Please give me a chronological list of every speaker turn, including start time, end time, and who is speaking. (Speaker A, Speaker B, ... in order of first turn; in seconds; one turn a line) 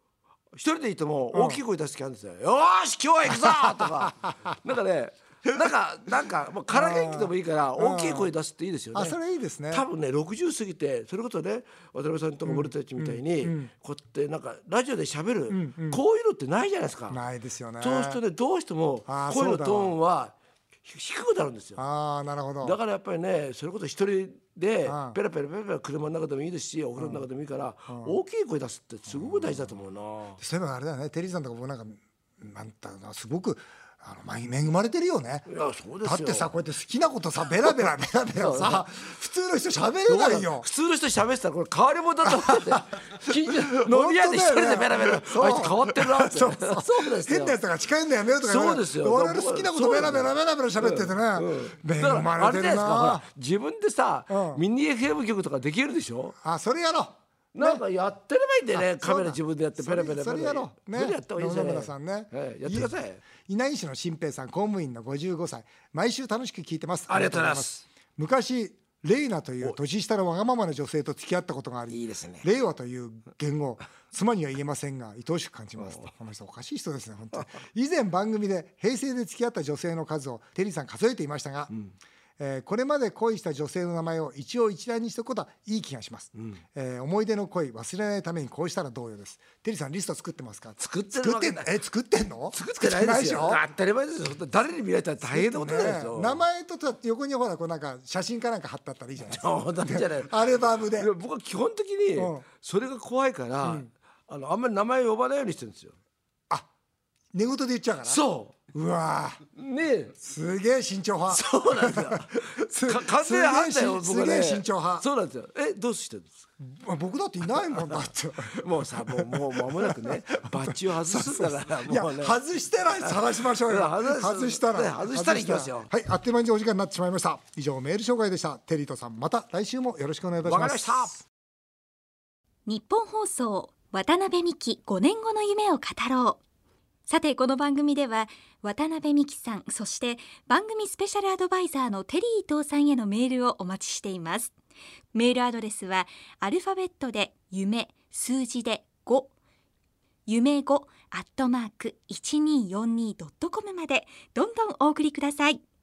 Speaker A: 0.5-9.2
Speaker B: 1.3-1.6
Speaker B: 3.4-4.3
Speaker B: 6.7-8.3
Speaker B: 8.9-9.8
Speaker A: 9.7-17.2
Speaker B: 12.4-13.7
Speaker B: 15.5-16.0
Speaker B: 17.1-18.2
Speaker A: 17.8-21.8
Speaker B: 19.1-19.9
Speaker B: 21.8-22.8
Speaker A: 22.6-30.4
Speaker B: 24.9-25.2
Speaker B: 27.0-27.2
Speaker B: 27.9-28.2
Speaker B: 29.1-29.8
Speaker B: 30.4-35.5
Speaker A: 35.5-36.5
Speaker B: 36.0-40.7
Speaker A: 38.4-38.8
Speaker A: 40.1-47.6
Speaker B: 42.2-53.2
Speaker A: 48.4-56.4
Speaker B: 54.3-54.6
Speaker B: 56.4-57.8
Speaker A: 57.5-63.2
Speaker B: 58.7-81.7
Speaker A: 67.1-67.8
Speaker A: 71.9-72.4
Speaker A: 75.8-76.1
Speaker B: 82.4-93.6
Speaker A: 90.8-91.7
Speaker A: 92.5-96.4
Speaker B: 95.2-101.1
Speaker A: 99.2-106.0
Speaker B: 102.2-102.4
Speaker B: 103.6-103.9
Speaker B: 107.3-108.2
Speaker A: 108.0-108.5
Speaker B: 108.7-109.4
Speaker A: 109.5-110.2
Speaker B: 110.2-115.0
Speaker A: 111.3-116.4
Speaker B: 116.6-120.5
Speaker A: 118.5-122.4
Speaker B: 121.0-131.2
Speaker A: 123.0-125.9
Speaker A: 130.4-131.2
Speaker C: 132.7-136.4
Speaker C: 137.1-144.5
Speaker C: 145.1-149.3
Speaker C: 150.3-155.6